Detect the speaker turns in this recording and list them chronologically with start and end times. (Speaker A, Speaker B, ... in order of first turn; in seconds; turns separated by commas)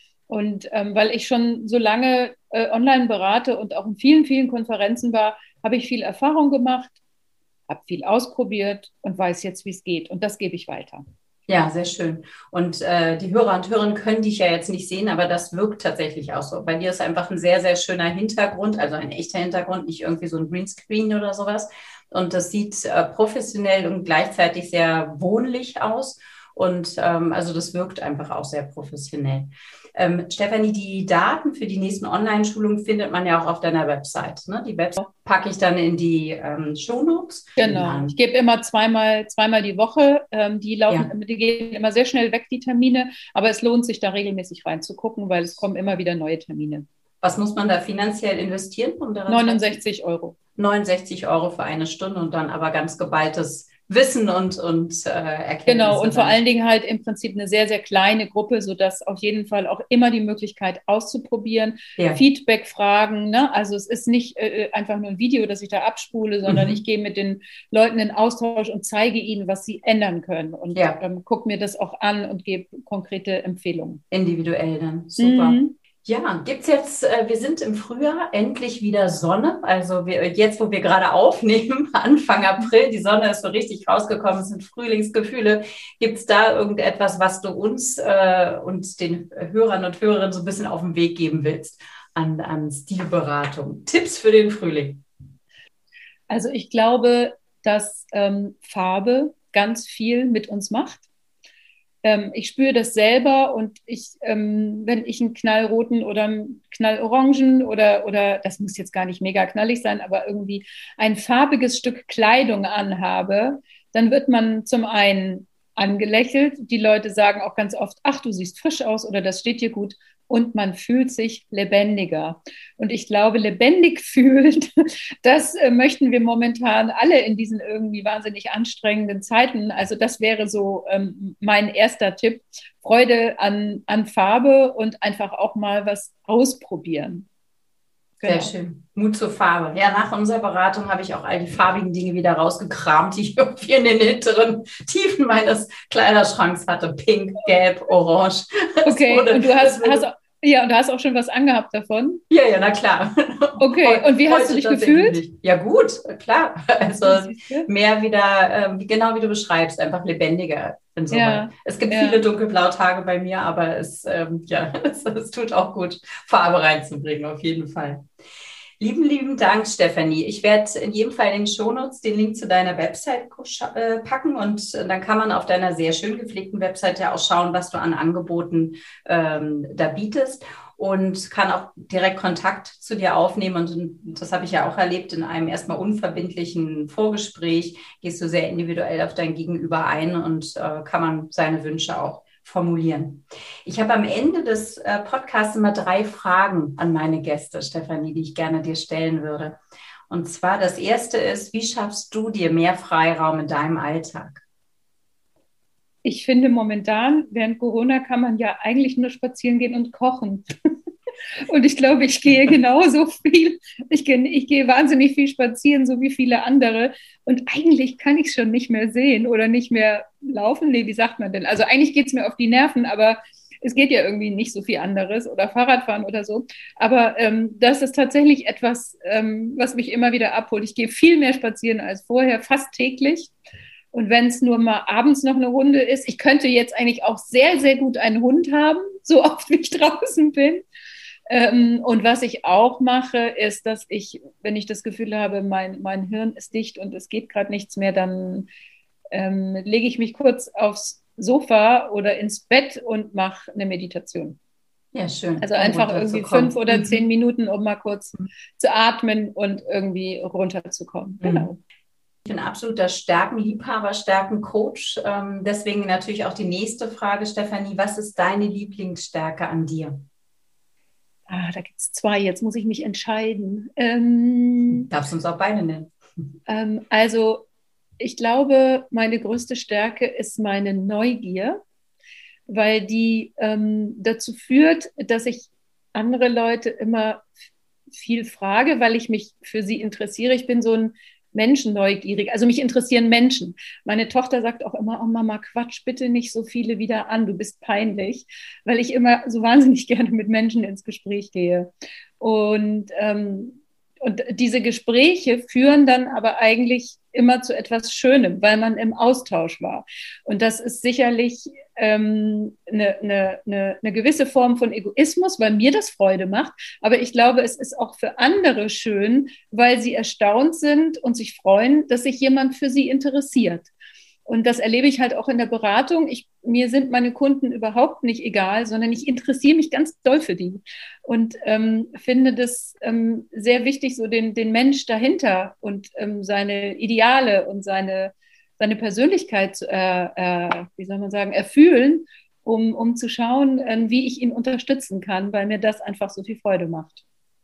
Speaker A: 0.3-7.0, Speaker A: 7.7-11.0, Speaker B: 11.5-38.1, Speaker A: 37.6-46.9, Speaker B: 47.2-49.8, Speaker A: 49.3-50.3, Speaker B: 50.5-56.4, Speaker A: 55.7-74.0, Speaker B: 66.5-66.8, Speaker B: 74.1-95.0, Speaker A: 75.2-75.7, Speaker A: 96.3-101.0, Speaker A: 102.0-137.2, Speaker A: 138.2-138.5, Speaker B: 138.2-150.0, Speaker A: 148.8-152.2, Speaker B: 152.3-168.0, Speaker A: 153.6-155.2, Speaker A: 157.0-157.7, Speaker A: 161.1-162.2, Speaker B: 168.8-199.6, Speaker B: 200.1-204.4, Speaker A: 206.0-210.4, Speaker A: 211.4-233.3, Speaker A: 233.9-240.6, Speaker A: 241.3-248.5, Speaker A: 249.1-254.4, Speaker B: 254.9-257.0, Speaker A: 255.4-261.6, Speaker B: 261.2-261.5, Speaker B: 262.2-270.0, Speaker A: 271.3-274.9, Speaker B: 274.7-275.9, Speaker A: 276.5-277.4, Speaker A: 278.0-281.6, Speaker A: 282.5-287.3, Speaker A: 287.9-323.7, Speaker A: 324.3-347.0